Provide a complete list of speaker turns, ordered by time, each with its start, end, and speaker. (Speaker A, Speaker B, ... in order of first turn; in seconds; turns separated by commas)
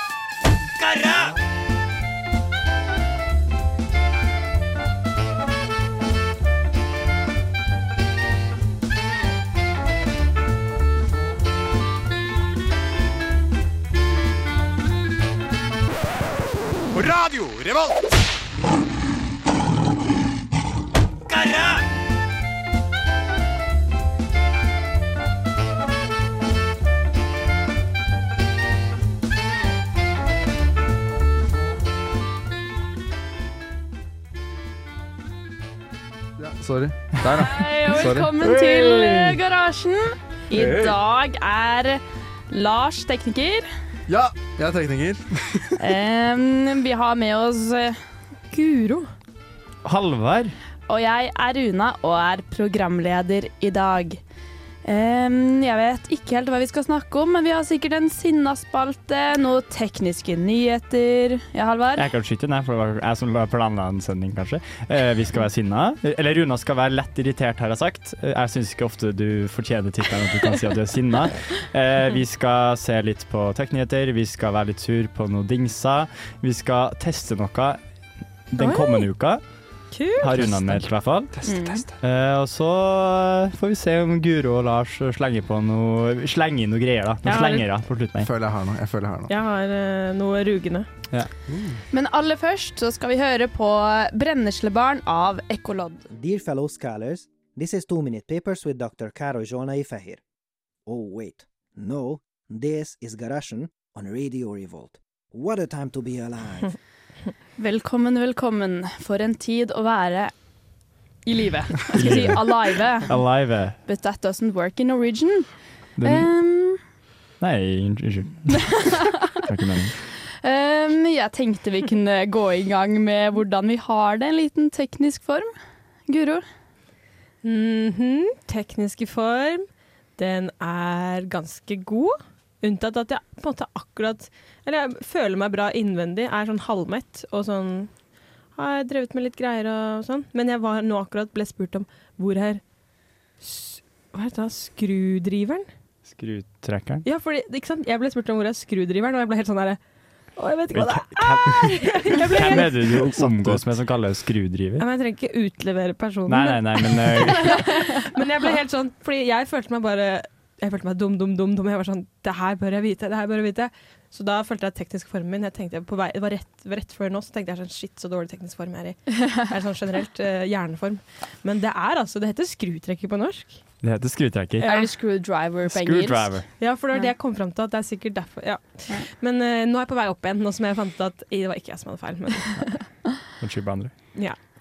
Speaker A: 0.8-1.3, Speaker A: 16.9-18.0, Speaker A: 21.3-21.8, Speaker B: 36.4-38.3, Speaker C: 37.4-43.7, Speaker D: 38.4-39.4, Speaker B: 40.5-40.9, Speaker B: 44.1-45.8, Speaker C: 45.8-48.0, Speaker E: 48.5-49.1, Speaker D: 49.8-50.5, Speaker C: 50.9-54.2, Speaker C: 54.9-62.0, Speaker D: 62.0-77.8, Speaker D: 78.5-79.4, Speaker E: 78.6-79.1, Speaker E: 79.9-80.4, Speaker D: 80.2-88.3, Speaker C: 81.5-81.8, Speaker E: 87.2-87.7, Speaker B: 88.2-89.3, Speaker E: 89.3-90.9, Speaker B: 91.5-91.8, Speaker C: 91.9-96.0, Speaker F: 96.1-100.2, Speaker F: 100.9-106.8, Speaker C: 107.6-110.3, Speaker C: 111.2-113.3, Speaker D: 111.9-113.8, Speaker C: 113.8-115.5, Speaker D: 116.0-116.3, Speaker C: 116.0-116.8, Speaker D: 117.4-120.0, Speaker C: 120.4-125.5, Speaker C: 126.1-126.4, Speaker E: 127.4-137.9, Speaker E: 138.6-142.6, Speaker E: 143.4-145.7, Speaker D: 146.1-147.1, Speaker E: 147.1-149.8, Speaker E: 150.4-153.0, Speaker D: 150.7-154.8, Speaker B: 153.0-153.7, Speaker E: 154.8-173.6, Speaker D: 156.3-157.8, Speaker D: 173.8-174.9, Speaker C: 174.6-177.1, Speaker D: 175.7-176.5, Speaker E: 176.6-182.8, Speaker D: 183.4-184.2